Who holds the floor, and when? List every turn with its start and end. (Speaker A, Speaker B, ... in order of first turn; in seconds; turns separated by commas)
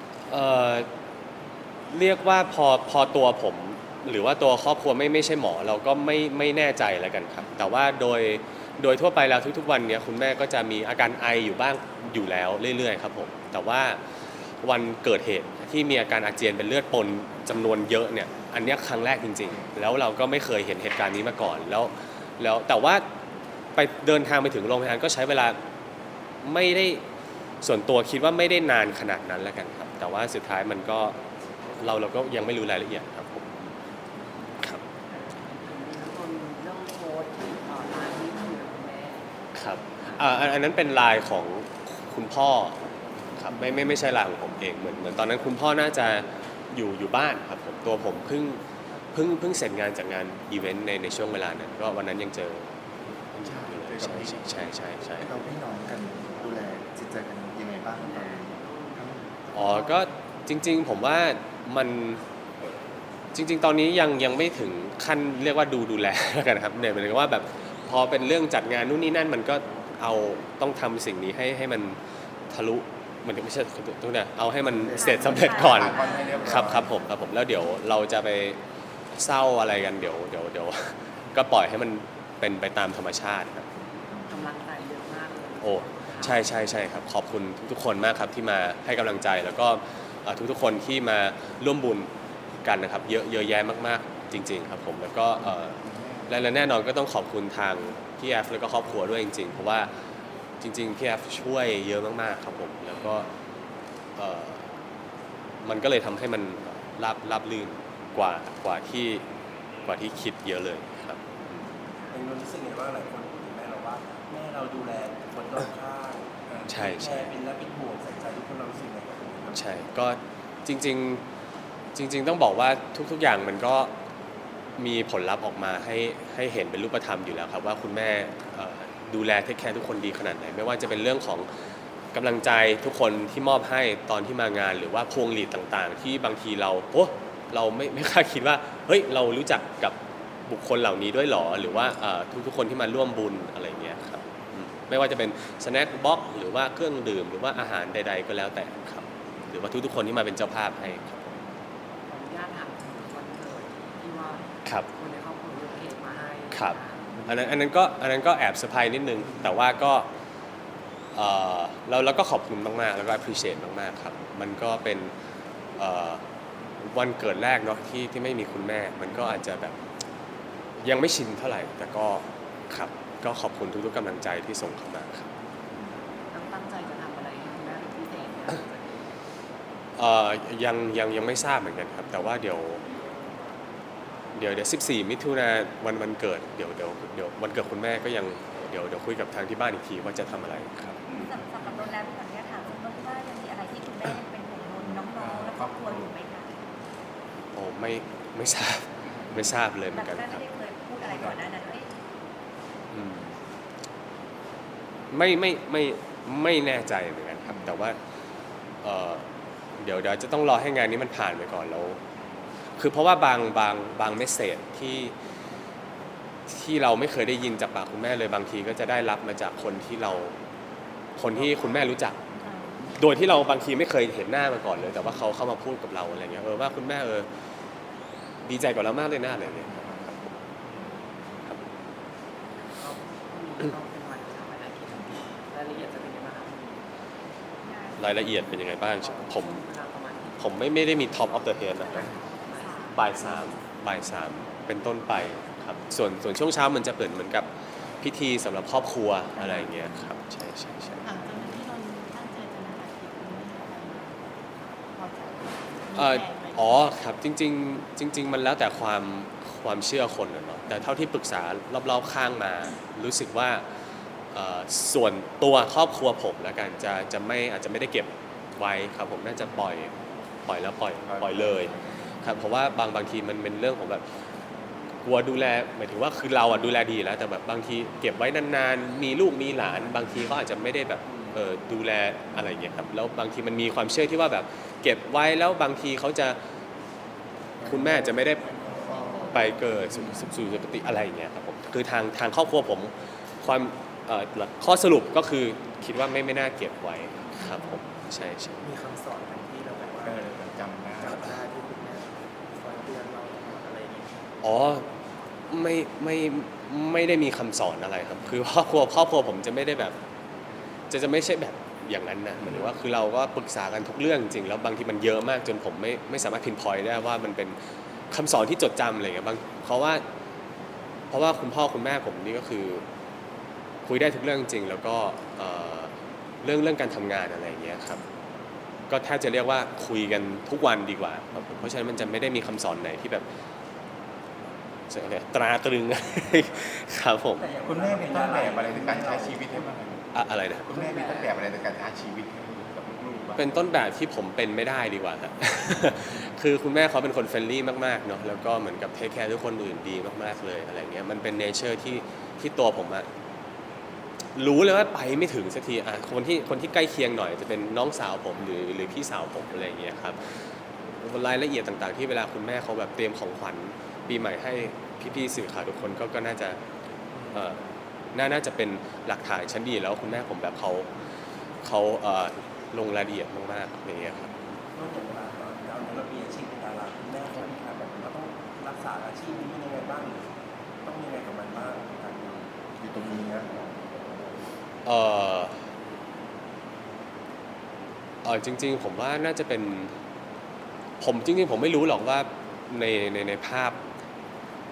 Speaker A: 0.3-0.9, Speaker A: 1.9-14.0, Speaker A: 14.6-23.0, Speaker A: 23.8-25.6, Speaker A: 26.4-27.0, Speaker A: 27.6-31.1, Speaker A: 31.8-33.7, Speaker B: 35.1-39.3, Speaker A: 39.5-42.8, Speaker A: 43.3-48.6, Speaker A: 49.1-52.6, Speaker A: 53.3-55.3, Speaker C: 53.4-54.5, Speaker D: 55.2-59.2, Speaker B: 57.9-59.9, Speaker A: 59.5-62.2, Speaker A: 63.3-72.0, Speaker A: 72.5-78.6, Speaker D: 74.8-75.3, Speaker E: 75.0-77.0, Speaker C: 75.3-76.8, Speaker D: 76.3-76.9, Speaker A: 79.2-83.6, Speaker B: 84.2-86.5, Speaker A: 85.6-92.1, Speaker A: 92.6-95.8, Speaker C: 95.7-96.3, Speaker A: 96.3-99.9, Speaker A: 100.6-103.2, Speaker A: 104.2-104.7, Speaker A: 105.6-109.2, Speaker A: 109.8-111.7, Speaker F: 112.1-119.6, Speaker A: 116.7-117.2, Speaker A: 119.5-121.2, Speaker A: 121.9-123.9, Speaker A: 124.8-131.5, Speaker A: 132.1-139.9, Speaker A: 140.5-151.4, Speaker B: 152.1-157.1, Speaker A: 156.5-160.1, Speaker A: 161.1-165.1, Speaker A: 165.8-166.2, Speaker A: 166.8-169.8, Speaker A: 170.8-175.3, Speaker B: 176.3-179.1, Speaker A: 179.9-182.8, Speaker A: 184.3-191.1, Speaker C: 191.1-191.9, Speaker E: 191.1-196.5, Speaker C: 195.2-196.1, Speaker A: 197.5-200.4, Speaker E: 199.9-201.9, Speaker C: 201.0-201.4, Speaker A: 202.9-203.3, Speaker A: 205.1-208.0, Speaker A: 208.8-209.2, Speaker A: 209.8-212.0, Speaker A: 212.8-215.1, Speaker A: 216.5-220.3, Speaker A: 221.2-222.2, Speaker E: 222.4-222.7, Speaker A: 222.9-227.3, Speaker A: 228.4-230.2, Speaker B: 232.7-236.8, Speaker E: 237.6-238.4, Speaker A: 238.0-239.6, Speaker B: 238.9-243.0, Speaker A: 240.4-242.1, Speaker E: 242.1-243.0, Speaker A: 242.9-247.5, Speaker A: 248.0-251.1, Speaker G: 251.0-254.2, Speaker G: 254.9-256.8, Speaker A: 255.9-263.6, Speaker A: 264.3-269.9, Speaker A: 270.4-274.0, Speaker C: 271.1-271.8, Speaker A: 275.0-286.4, Speaker D: 287.6-288.3, Speaker A: 287.6-288.4, Speaker F: 288.9-289.1, Speaker A: 289.2-298.7, Speaker D: 298.8-300.1, Speaker F: 299.5-299.9, Speaker C: 300.0-301.3, Speaker D: 301.0-304.2, Speaker A: 304.4-304.9, Speaker A: 305.5-309.9, Speaker A: 310.9-317.6, Speaker A: 318.1-320.0, Speaker A: 321.1-322.8, Speaker A: 323.9-325.9, Speaker A: 326.4-328.0, Speaker A: 328.9-333.2, Speaker A: 334.9-337.4, Speaker F: 337.4-339.7, Speaker C: 337.6-340.0, Speaker A: 340.1-340.7, Speaker C: 340.6-343.5, Speaker F: 340.7-341.1, Speaker B: 340.7-341.2, Speaker A: 343.4-353.1, Speaker A: 354.3-360.2, Speaker A: 361.0-366.6, Speaker A: 367.3-367.6, Speaker A: 368.1-370.9, Speaker A: 371.6-374.4, Speaker F: 374.7-383.5, Speaker D: 382.8-383.6, Speaker A: 384.8-385.6, Speaker A: 388.2-389.9, Speaker A: 391.0-393.8